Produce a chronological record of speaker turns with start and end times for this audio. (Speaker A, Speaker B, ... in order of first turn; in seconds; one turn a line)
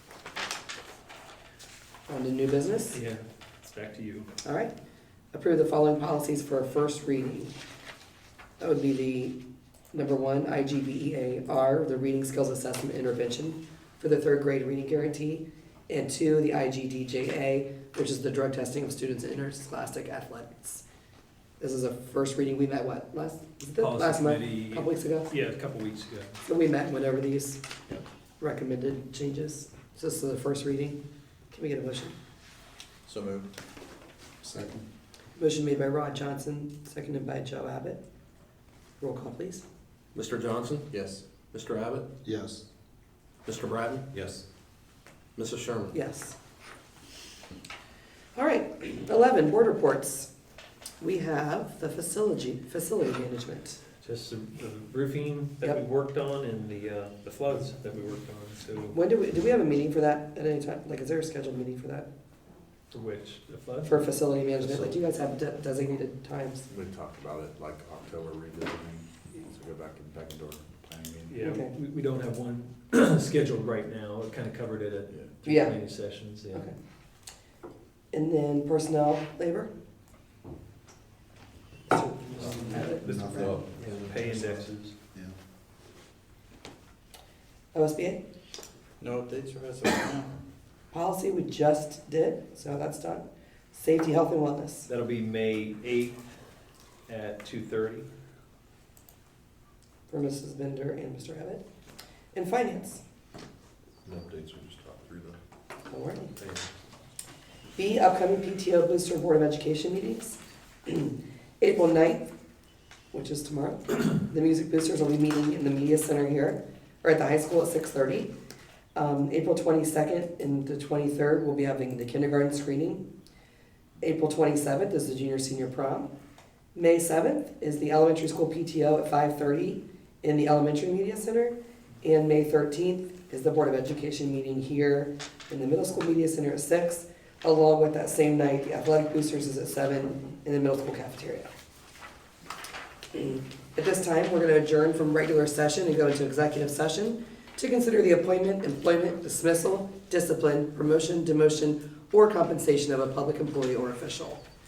Speaker A: 2.1-3.0
Speaker B: 2.9-4.3
Speaker A: 4.4-4.7
Speaker A: 5.3-7.5
Speaker A: 8.6-9.4
Speaker A: 9.9-20.8
Speaker A: 21.6-25.3
Speaker B: 23.8-26.4
Speaker A: 26.4-27.6
Speaker A: 28.4-31.0
Speaker A: 31.5-32.1
Speaker C: 33.0-33.5
Speaker D: 34.4-34.9
Speaker A: 35.4-38.0
Speaker A: 39.0-39.6
Speaker E: 40.1-40.9
Speaker C: 40.9-41.2
Speaker E: 41.4-42.1
Speaker D: 42.2-42.6
Speaker E: 43.4-44.0
Speaker C: 44.1-44.4
Speaker E: 45.4-45.9
Speaker A: 45.9-46.4
Speaker A: 48.3-50.3
Speaker A: 51.0-53.8
Speaker B: 54.0-59.0
Speaker A: 58.9-62.1
Speaker B: 62.9-64.1
Speaker A: 63.8-66.7
Speaker C: 64.6-65.0
Speaker C: 66.7-71.4
Speaker B: 71.3-76.7
Speaker A: 71.3-71.7
Speaker A: 75.4-76.7
Speaker A: 78.1-79.7
Speaker A: 81.9-83.6
Speaker B: 82.3-84.9
Speaker D: 82.5-83.6
Speaker C: 83.5-84.6
Speaker A: 87.7-88.2
Speaker C: 89.0-90.3
Speaker A: 90.9-94.9
Speaker B: 94.9-96.2
Speaker B: 97.1-98.1
Speaker A: 100.1-101.6
Speaker A: 102.3-103.0
Speaker C: 104.0-105.4
Speaker A: 105.9-106.4
Speaker C: 106.4-106.7
Speaker A: 107.8-112.3
Speaker A: 113.1-118.3
Speaker A: 118.9-123.0
Speaker A: 124.0-126.1
Speaker A: 126.7-141.5
Speaker A: 143.1-154.4